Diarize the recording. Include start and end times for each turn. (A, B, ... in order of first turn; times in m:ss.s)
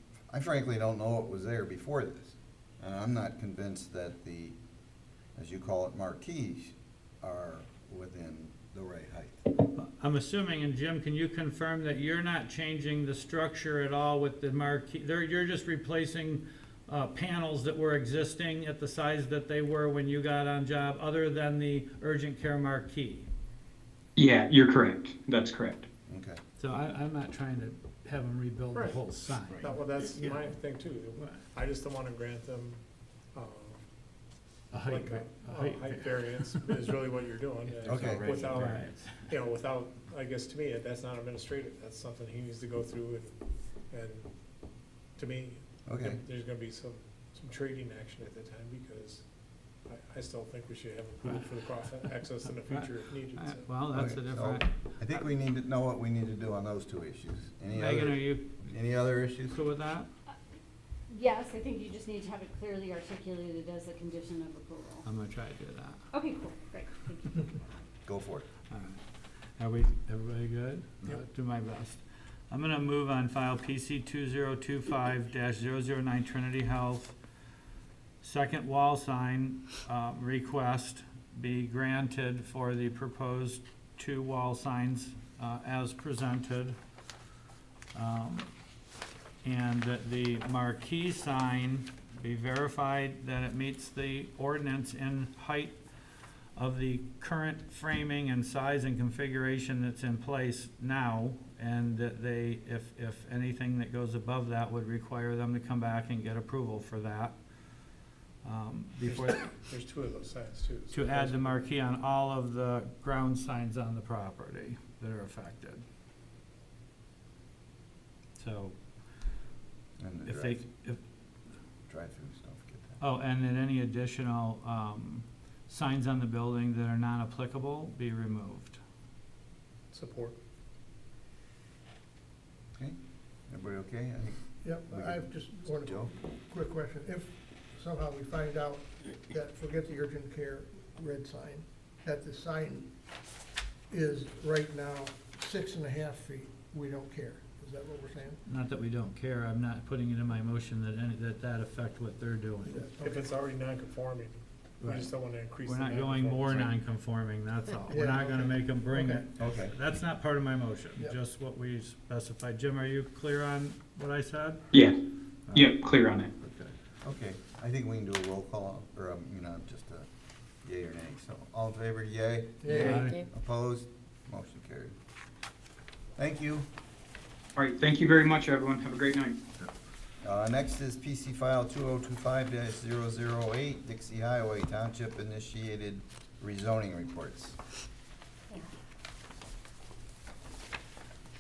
0:00.3-0:04.6 A
0:05.4-0:09.4 A
0:09.7-0:23.3 B
0:24.2-0:25.8 C
0:26.1-0:26.4 A
0:26.6-0:29.7 B
0:28.7-0:29.0 D
0:29.6-0:32.8 D
0:31.2-0:31.4 B
0:33.3-0:33.8 D
0:34.7-0:36.5 B
0:34.8-0:44.3 D
0:37.8-0:39.2 B
0:37.8-0:38.4 A
0:45.2-0:49.2 D
0:45.8-0:46.2 A
0:49.8-0:53.7 D
0:51.2-0:51.5 B
0:52.6-0:54.7 B
0:53.9-0:59.6 A
0:57.7-0:58.5 B
0:59.5-1:00.1 B
1:01.1-1:05.1 E
1:05.0-1:06.0 B
1:06.1-1:07.6 E
1:08.1-1:08.5 A
1:08.7-1:09.0 B
1:09.6-1:17.2 B
1:18.2-1:26.8 B
1:27.9-1:28.5 B
1:29.4-1:35.8 B
1:36.6-1:47.4 B
1:48.4-1:49.5 B
1:49.0-1:51.6 D
1:50.9-1:55.8 B
1:58.4-1:58.8 B
2:00.0-2:00.7 A
2:00.3-2:01.0 B
2:01.9-2:03.0 A
2:03.0-2:08.8 B
2:09.9-2:10.4 D
2:13.5-2:16.1 A
2:14.6-2:22.9 F
2:23.9-2:28.4 F
2:28.4-2:32.8 B
2:32.7-2:33.3 F
2:33.0-2:36.7 D
2:34.8-2:44.6 B
2:37.9-2:39.3 F
2:39.4-2:39.8 A
2:45.5-2:46.3 C
2:46.4-2:46.7 B
2:47.0-2:50.1 A
2:50.6-2:54.9 A
2:52.6-2:53.1 F
2:52.7-2:53.2 B
2:56.2-2:56.7 A
2:57.6-2:59.4 C
3:00.2-3:07.6 A